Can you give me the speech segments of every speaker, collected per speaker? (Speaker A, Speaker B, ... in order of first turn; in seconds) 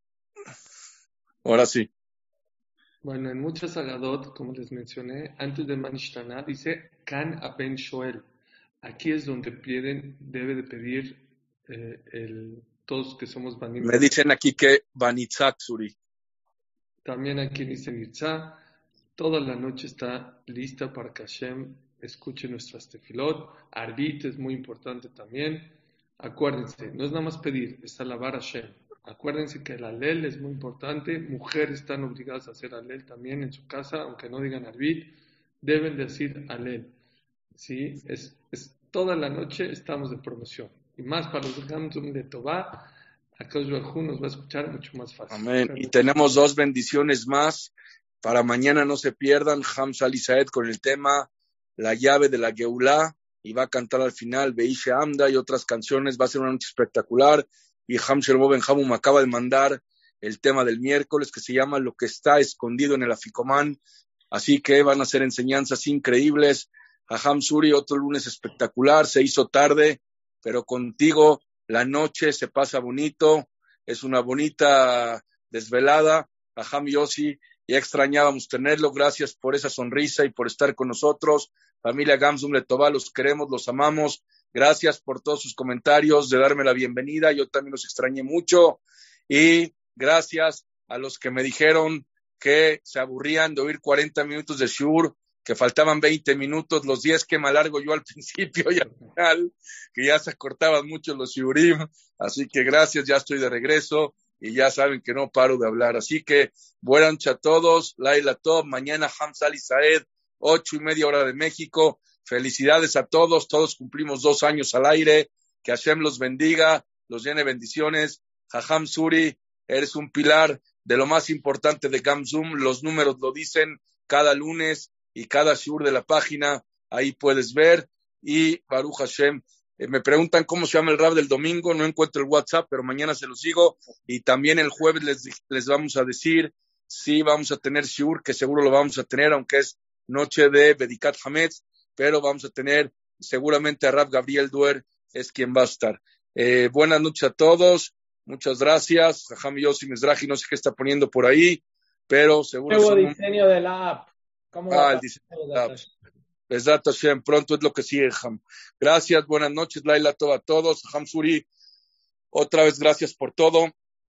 Speaker A: 1.4-1.9, 13.8-15.9, 45.3-47.7, 48.2-63.8, 64.3-153.2, 154.7-155.7, 156.5-161.5, 162.3-163.7
Speaker B: 3.0-8.2, 8.8-14.1, 17.0-18.6, 19.2-36.9, 37.5-46.4
Speaker C: 152.7-155.9